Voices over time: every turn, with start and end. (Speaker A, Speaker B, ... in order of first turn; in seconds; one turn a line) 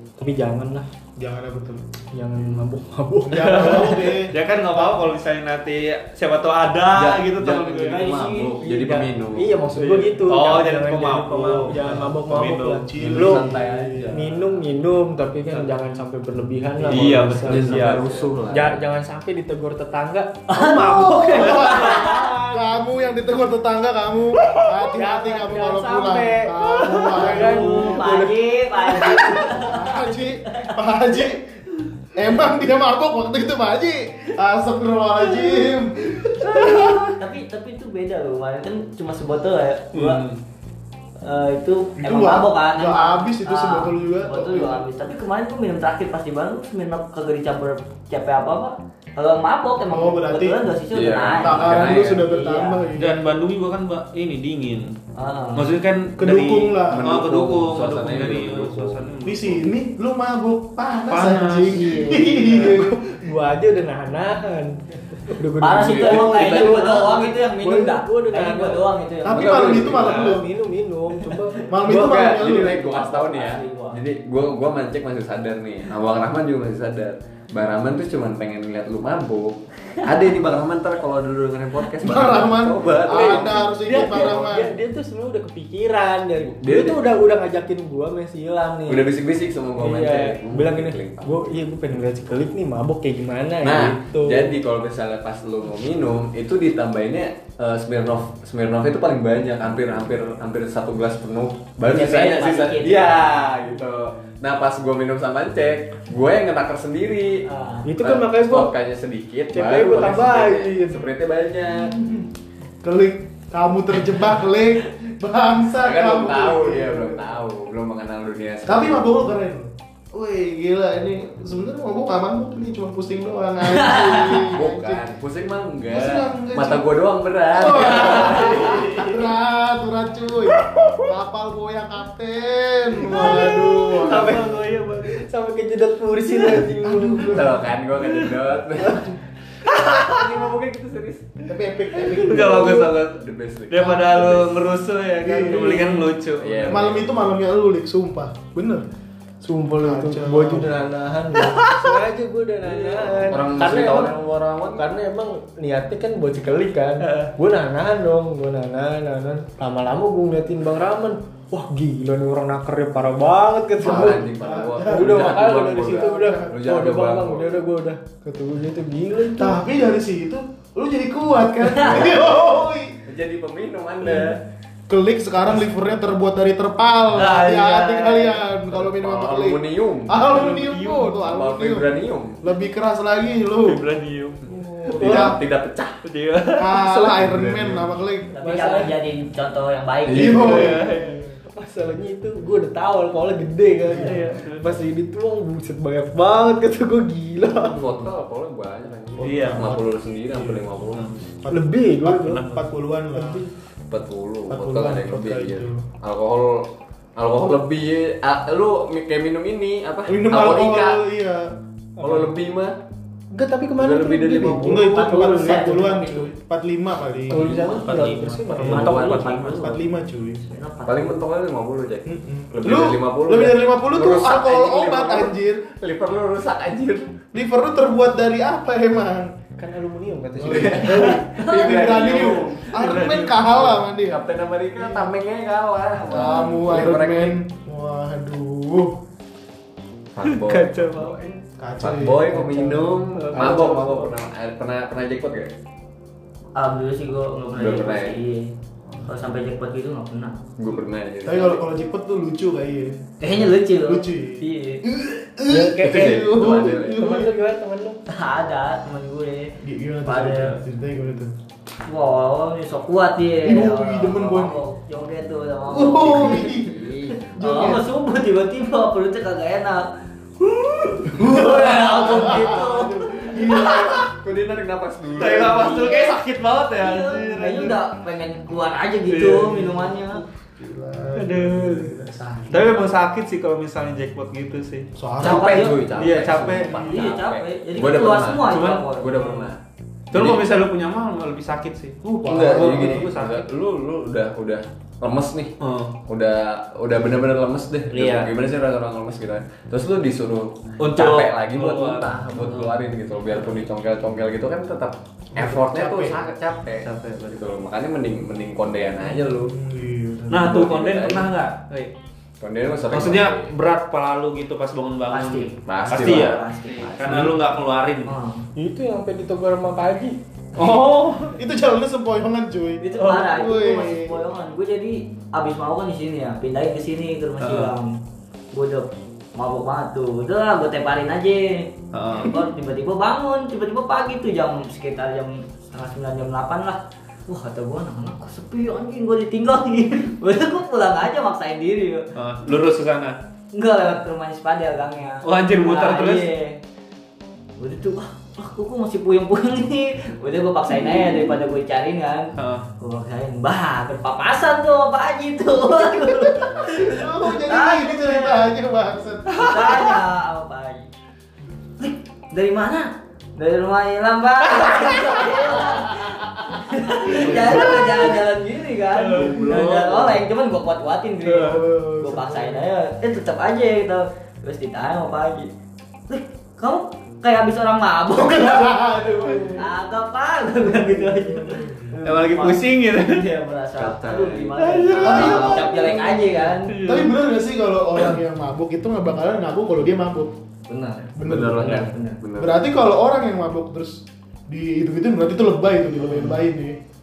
Speaker A: 0.2-0.9
Speaker B: 1.2-1.9
Speaker A: 2.1-4.2
Speaker B: 3.2-5.1
Speaker C: 3.4-8.1
Speaker D: 6.9-9.7
Speaker E: 7.8-8.6
Speaker A: 8.6-13.5
Speaker C: 9.7-12.8
Speaker B: 12.9-14.1
Speaker D: 13.0-14.6
Speaker A: 14.1-22.6
Speaker C: 16.8-18.2
Speaker D: 16.8-18.8
Speaker E: 20.5-22.2
Speaker B: 20.7-28.0
Speaker A: 24.8-28.3
Speaker E: 27.1-30.7
Speaker B: 29.0-31.5
Speaker B: 32.1-37.1
Speaker E: 37.2-40.2
Speaker C: 39.9-40.4
Speaker E: 41.2-52.9
Speaker B: 42.0-44.9
Speaker B: 49.9-50.6
Speaker D: 50.9-52.3
Speaker B: 51.4-53.2
Speaker C: 52.9-55.0
Speaker E: 55.1-55.7
Speaker C: 55.5-59.7
Speaker B: 56.2-57.2
Speaker D: 56.9-59.1
Speaker B: 59.2-63.1
Speaker C: 61.1-62.0
Speaker E: 61.7-62.7
Speaker A: 62.5-68.9
Speaker E: 65.6-69.8
Speaker D: 65.8-67.0
Speaker B: 69.2-70.5
Speaker D: 69.3-70.4
Speaker A: 69.7-72.4
Speaker B: 71.7-72.9
Speaker D: 71.8-83.7
Speaker E: 72.6-74.0
Speaker B: 82.0-84.8
Speaker A: 83.1-89.1
Speaker D: 86.4-87.1
Speaker D: 88.9-91.4
Speaker A: 89.8-94.5
Speaker D: 93.6-107.4
Speaker E: 101.8-103.3
Speaker E: 107.5-107.8
Speaker A: 107.8-108.7
Speaker D: 108.0-111.9
Speaker A: 109.5-111.0
Speaker B: 111.7-112.3
Speaker B: 112.8-117.3
Speaker D: 115.8-119.2
Speaker B: 118.7-125.0
Speaker E: 123.7-124.5
Speaker D: 124.5-129.2
Speaker B: 125.9-126.9
Speaker B: 127.5-134.6
Speaker A: 130.7-131.0
Speaker A: 133.0-137.4
Speaker C: 134.0-134.9
Speaker B: 136.6-137.6
Speaker D: 137.3-139.2
Speaker C: 139.7-140.2
Speaker D: 139.8-141.3
Speaker B: 141.5-142.8
Speaker C: 142.0-146.8
Speaker D: 142.2-144.4
Speaker A: 142.4-142.7
Speaker B: 143.8-144.3
Speaker B: 145.2-146.1
Speaker D: 146.4-147.2
Speaker B: 146.7-148.8
Speaker A: 149.4-154.2
Speaker B: 149.8-150.8
Speaker C: 151.4-151.8
Speaker D: 152.7-154.9
Speaker A: 154.7-164.2
Speaker C: 157.0-157.3
Speaker B: 163.8-166.6
Speaker D: 163.8-167.7
Speaker A: 164.8-169.6
Speaker B: 169.3-173.0
Speaker D: 173.0-174.4
Speaker B: 174.0-174.4
Speaker B: 174.9-183.8
Speaker C: 177.1-178.4
Speaker D: 178.7-180.4
Speaker C: 180.3-181.1
Speaker D: 181.2-182.4
Speaker C: 183.6-184.5
Speaker A: 184.5-185.3
Speaker B: 184.8-185.4
Speaker D: 184.9-186.0
Speaker C: 186.0-187.0
Speaker B: 186.6-188.3
Speaker D: 187.0-187.9
Speaker E: 188.3-190.7
Speaker A: 188.4-189.0
Speaker D: 190.0-190.7
Speaker B: 190.1-191.1
Speaker C: 190.4-191.0
Speaker A: 190.6-197.8
Speaker C: 193.9-194.7
Speaker D: 197.7-201.1
Speaker B: 197.8-198.1
Speaker B: 199.2-200.7
Speaker C: 199.2-199.7
Speaker B: 201.4-203.4
Speaker A: 201.5-202.5
Speaker C: 202.2-202.6
Speaker A: 203.1-203.5
Speaker D: 203.9-211.0
Speaker B: 204.5-205.8
Speaker B: 210.1-211.5
Speaker A: 212.0-212.3
Speaker D: 212.0-212.8
Speaker A: 213.3-216.1
Speaker D: 213.8-214.9
Speaker B: 214.6-217.5
Speaker E: 214.9-216.3
Speaker A: 217.3-219.2
Speaker D: 217.3-217.8
Speaker C: 217.4-219.7
Speaker E: 218.6-219.8
Speaker D: 218.7-219.2
Speaker B: 219.5-220.4
Speaker E: 220.3-221.2
Speaker D: 220.8-227.1
Speaker B: 222.1-225.6
Speaker B: 227.3-229.3
Speaker A: 229.6-231.2
Speaker B: 230.4-234.2
Speaker D: 230.4-237.4
Speaker E: 231.3-232.0
Speaker C: 232.7-233.7
Speaker B: 234.8-235.1
Speaker B: 236.0-239.0
Speaker D: 240.1-241.2
Speaker C: 240.2-241.2
Speaker A: 240.8-241.4
Speaker B: 241.6-242.4
Speaker D: 241.8-245.5
Speaker A: 242.3-244.1
Speaker E: 246.6-248.5
Speaker D: 247.6-248.2
Speaker B: 248.9-249.1
Speaker E: 249.1-250.4
Speaker D: 250.6-251.6
Speaker B: 251.2-257.3
Speaker E: 253.2-254.8
Speaker A: 255.5-258.0
Speaker D: 255.8-257.1
Speaker E: 258.1-260.6
Speaker B: 259.6-261.3
Speaker E: 261.9-273.6
Speaker B: 263.4-264.6
Speaker B: 265.7-267.9
Speaker D: 266.2-266.9
Speaker B: 271.1-274.1
Speaker C: 273.4-274.1
Speaker D: 273.9-275.9
Speaker C: 275.1-277.8
Speaker E: 275.4-276.2
Speaker E: 276.8-280.2
Speaker C: 279.1-279.8
Speaker B: 279.5-282.8
Speaker C: 281.1-281.9
Speaker C: 282.5-284.9
Speaker B: 284.9-285.8
Speaker D: 285.2-290.4
Speaker E: 285.2-285.8
Speaker C: 285.9-286.9
Speaker B: 286.4-287.1
Speaker E: 286.7-289.2
Speaker C: 288.4-289.5
Speaker C: 290.1-293.4
Speaker B: 292.0-293.1
Speaker D: 292.2-295.5
Speaker C: 295.6-295.9
Speaker D: 296.1-309.5
Speaker C: 297.9-298.3
Speaker C: 300.8-302.8
Speaker C: 305.4-307.5
Speaker B: 309.3-310.6
Speaker C: 310.3-311.9
Speaker D: 310.4-311.3
Speaker D: 312.4-313.5
Speaker C: 312.9-318.1
Speaker E: 315.1-316.9
Speaker D: 315.6-317.4
Speaker E: 318.0-318.5
Speaker A: 318.6-320.2
Speaker C: 320.6-321.4
Speaker B: 321.3-324.2
Speaker E: 322.8-328.0
Speaker C: 327.4-327.7
Speaker E: 328.5-342.1
Speaker C: 331.9-332.4
Speaker C: 342.1-343.2
Speaker E: 343.5-346.6
Speaker C: 345.2-346.3
Speaker E: 347.6-358.5
Speaker C: 352.3-352.6
Speaker B: 356.6-359.7
Speaker C: 359.3-360.0
Speaker E: 359.4-360.9
Speaker E: 361.8-375.5
Speaker C: 364.6-365.4
Speaker C: 367.0-368.2
Speaker B: 367.1-368.1
Speaker C: 368.9-370.2
Speaker B: 371.3-372.7
Speaker E: 376.1-378.8
Speaker B: 378.1-379.7
Speaker A: 379.2-379.5
Speaker E: 379.5-386.8
Speaker B: 380.6-381.9
Speaker C: 382.0-383.2
Speaker D: 383.8-385.8
Speaker C: 384.6-387.2
Speaker B: 385.0-390.4
Speaker E: 390.7-392.2
Speaker B: 391.1-396.8
Speaker D: 391.2-392.7